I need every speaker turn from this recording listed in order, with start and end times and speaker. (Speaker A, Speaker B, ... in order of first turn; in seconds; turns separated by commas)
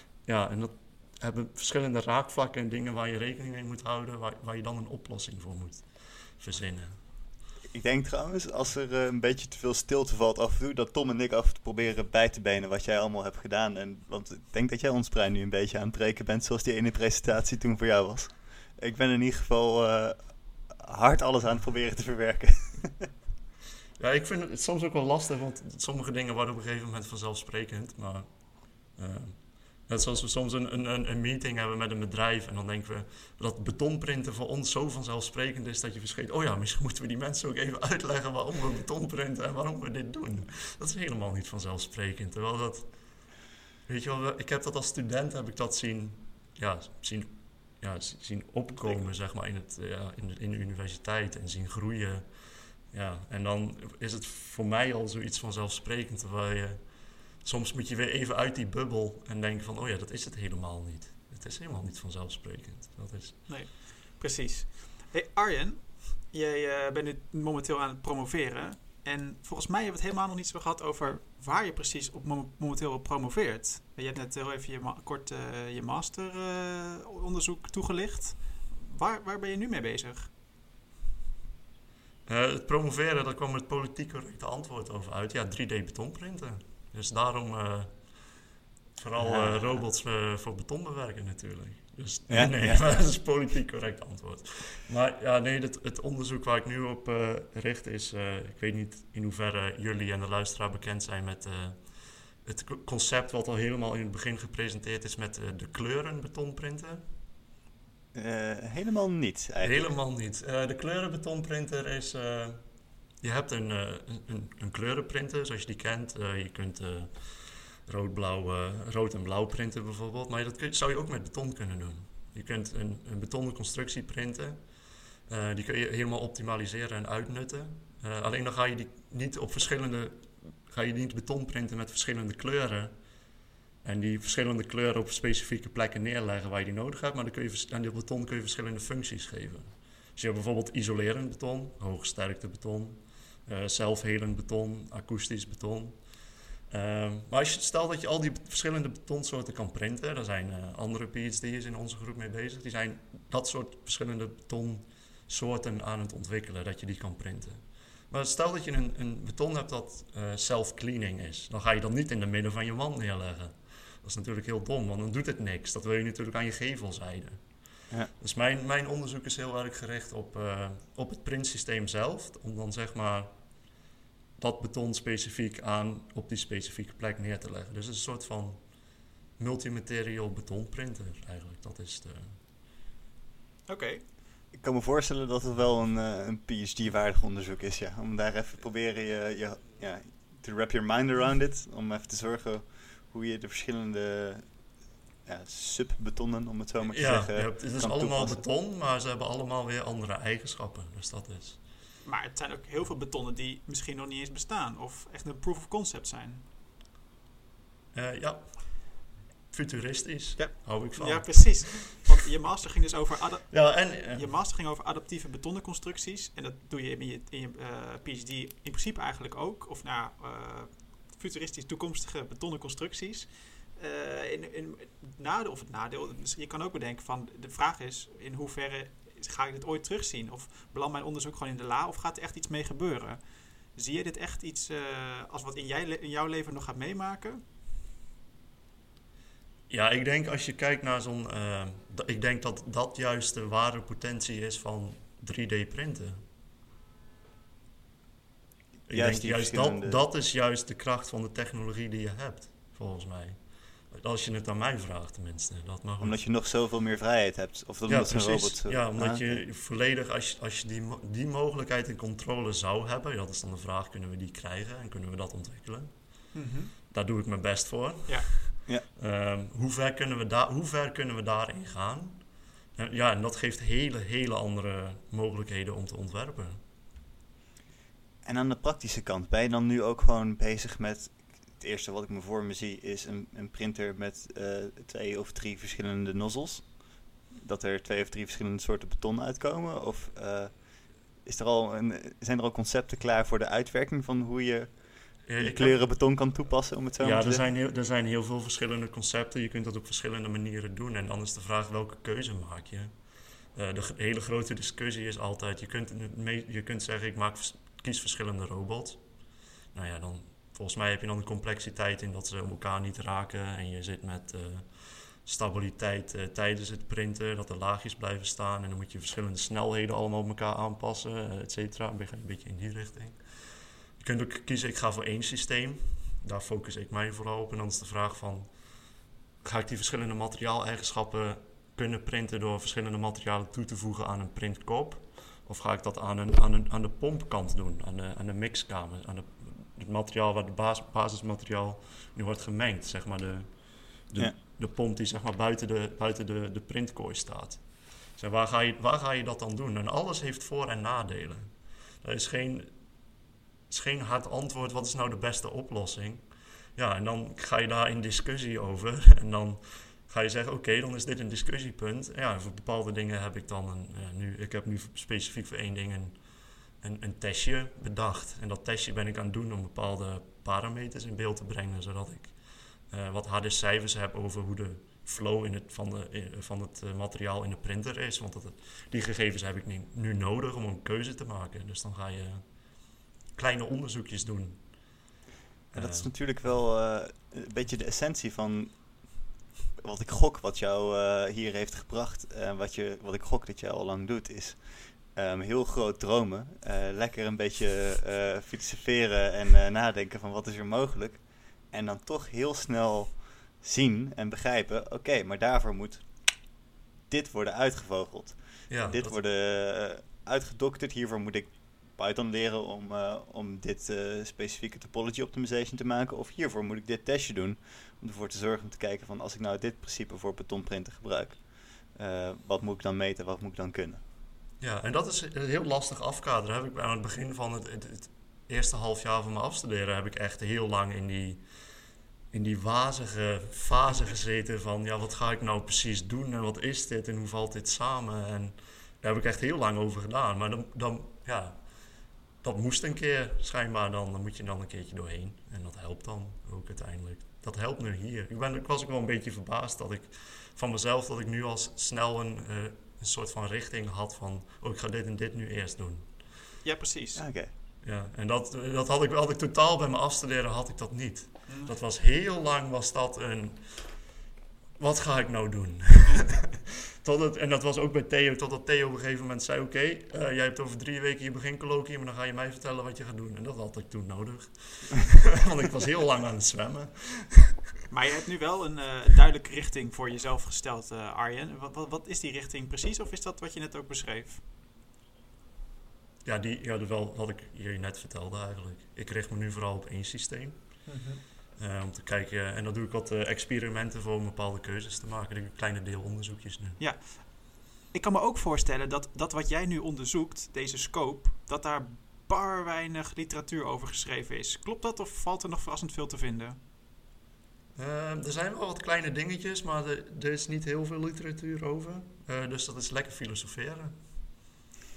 Speaker A: 0.2-5.8, Speaker A: 6.4-7.0, Speaker B: 7.7-23.1, Speaker A: 24.0-28.3, Speaker A: 28.9-42.9, Speaker A: 43.9-52.2, Speaker A: 52.9-56.8, Speaker A: 57.4-63.5, Speaker C: 63.5-80.3, Speaker A: 82.2-87.9, Speaker A: 89.0-101.8, Speaker B: 89.2-89.8, Speaker B: 92.3-92.8, Speaker A: 102.4-107.0, Speaker B: 108.1-109.9, Speaker A: 109.6-112.6, Speaker A: 113.2-117.2, Speaker A: 117.8-124.6, Speaker A: 125.3-132.9, Speaker A: 133.8-146.0, Speaker A: 146.7-167.4, Speaker A: 168.2-173.3, Speaker A: 174.4-178.6, Speaker A: 179.4-182.4, Speaker C: 183.7-184.0, Speaker B: 184.5-194.5, Speaker B: 195.2-198.4, Speaker A: 196.9-201.6, Speaker C: 202.0-206.4, Speaker A: 207.9-208.9, Speaker A: 209.5-212.0, Speaker C: 210.4-233.2, Speaker A: 213.5-214.3, Speaker C: 233.7-237.4, Speaker A: 239.7-246.2, Speaker A: 248.9-253.4, Speaker B: 248.9-250.0, Speaker A: 253.9-256.2, Speaker B: 256.0-259.4, Speaker A: 257.9-265.9, Speaker C: 266.3-266.7, Speaker A: 266.9-272.2, Speaker A: 272.8-276.6, Speaker B: 278.2-286.8, Speaker B: 287.3-290.7, Speaker B: 291.2-297.4, Speaker A: 295.2-295.8, Speaker A: 297.0-302.9, Speaker A: 303.5-309.0, Speaker A: 309.7-314.7, Speaker A: 315.2-323.2, Speaker A: 324.0-328.5, Speaker A: 329.4-343.6, Speaker A: 344.1-347.6, Speaker A: 348.1-351.5, Speaker A: 352.0-352.7, Speaker A: 353.7-356.2, Speaker A: 356.8-366.2, Speaker A: 366.8-372.3, Speaker A: 372.9-382.4, Speaker A: 383.3-384.6, Speaker A: 385.7-386.1, Speaker B: 385.7-389.2, Speaker B: 389.8-406.1, Speaker B: 407.1-424.0, Speaker A: 408.7-409.2, Speaker A: 424.6-431.4, Speaker A: 432.3-441.6, Speaker A: 442.4-456.1, Speaker C: 456.6-457.2, Speaker B: 457.1-457.5, Speaker A: 457.8-464.0, Speaker C: 461.5-461.7, Speaker A: 464.8-477.6, Speaker C: 477.9-484.4, Speaker A: 486.2-490.9, Speaker C: 490.9-491.2, Speaker A: 491.6-496.8, Speaker C: 496.8-506.6, Speaker A: 507.7-514.0